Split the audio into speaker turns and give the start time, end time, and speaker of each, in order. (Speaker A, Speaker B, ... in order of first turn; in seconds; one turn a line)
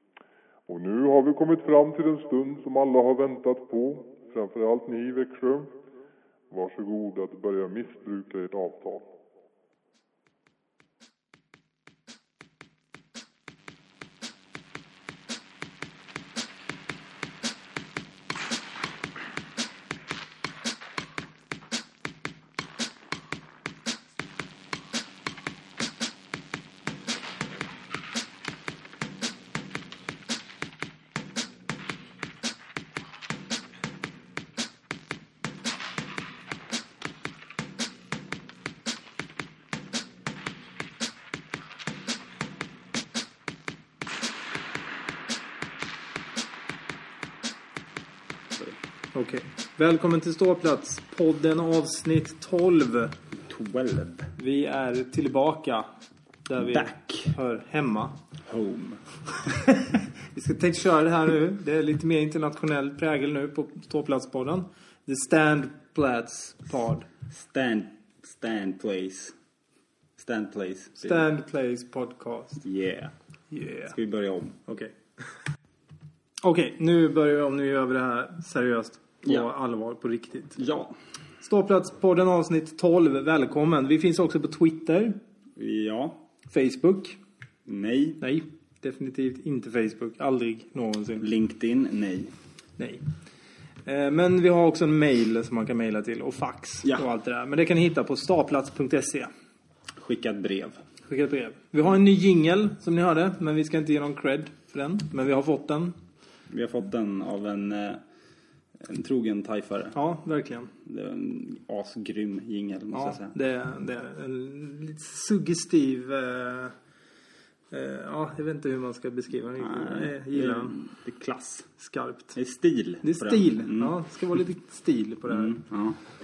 Speaker A: 0.7-5.7
Speaker A: 6.5-9.1
Speaker B: 49.1-53.2
Speaker C: 53.5-54.3
Speaker B: 54.4-55.9
Speaker B: 56.5-58.2
Speaker C: 56.6-57.4
Speaker C: 58.5-59.0
Speaker B: 59.7-67.1
Speaker C: 67.3-69.4
Speaker C: 70.2-71.2
Speaker B: 71.0-72.6
Speaker C: 72.6-73.1
Speaker B: 73.5-73.9
Speaker C: 73.8-74.6
Speaker B: 74.7-75.0
Speaker B: 76.4-80.6
Speaker C: 80.6-80.9
Speaker B: 81.4-85.2
Speaker C: 85.6-86.2
Speaker B: 86.5-87.2
Speaker C: 87.7-88.2
Speaker B: 88.2-91.3
Speaker C: 91.2-92.3
Speaker B: 92.8-93.0
Speaker B: 93.8-99.3
Speaker C: 100.0-100.8
Speaker B: 101.1-106.0
Speaker C: 106.5-108.0
Speaker C: 108.8-110.0
Speaker B: 109.9-110.7
Speaker C: 110.8-113.3
Speaker B: 112.9-116.8
Speaker B: 117.7-120.8
Speaker C: 119.6-121.7
Speaker B: 121.8-122.4
Speaker C: 122.3-124.0
Speaker B: 123.0-125.6
Speaker C: 125.3-126.0